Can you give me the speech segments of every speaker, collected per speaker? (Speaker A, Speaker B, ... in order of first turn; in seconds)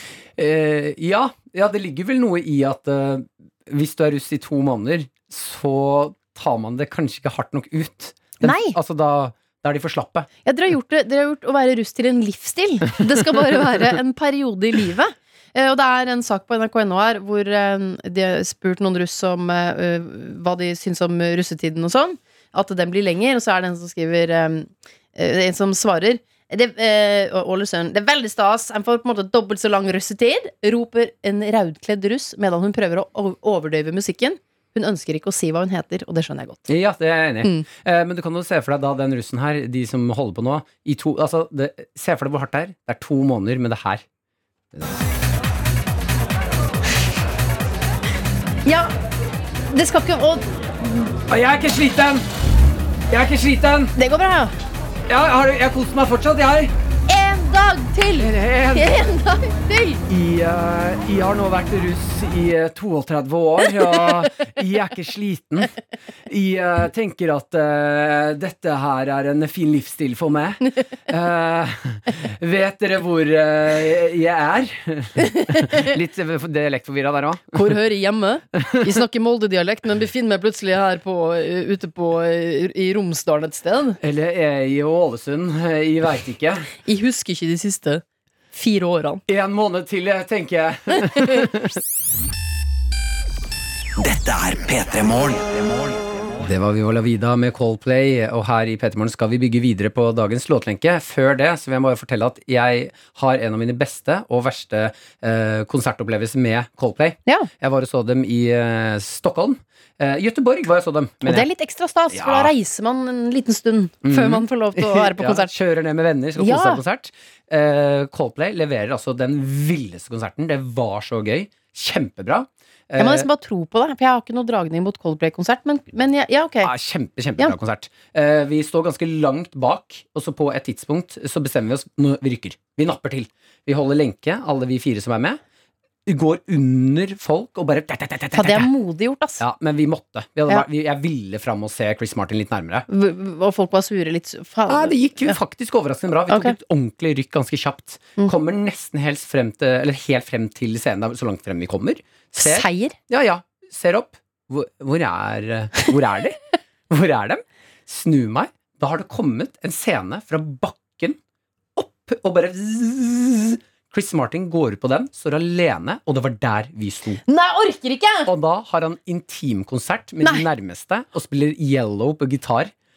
Speaker A: 0.3-10.3, 36.7-44.0, 44.7-45.0, 51.3-52.2, 53.1-53.9, 55.1-56.7, 58.1-59.0, 60.1-65.7, 66.3-77.8, 84.0-86.7, 89.3-91.8, 96.4-111.5, 112.1-112.5, 114.0-123.3, 126.6-135.4, 136.1-138.7, 139.4-142.9, 144.7-161.2, 161.8-167.2, 168.2-172.7
Speaker B: 8.4-8.8, 10.4-36.6, 48.6-48.9, 49.7-51.0, 54.0-54.5, 57.1-60.0, 75.3-75.9, 77.5-84.0, 86.8-89.2, 91.0-91.4, 111.2-115.5, 116.4-116.8, 123.0-126.7, 138.3-139.4, 142.9-145.4, 146.3-146.6, 152.3-152.9, 167.3-168.3
Speaker C: 94.0-96.3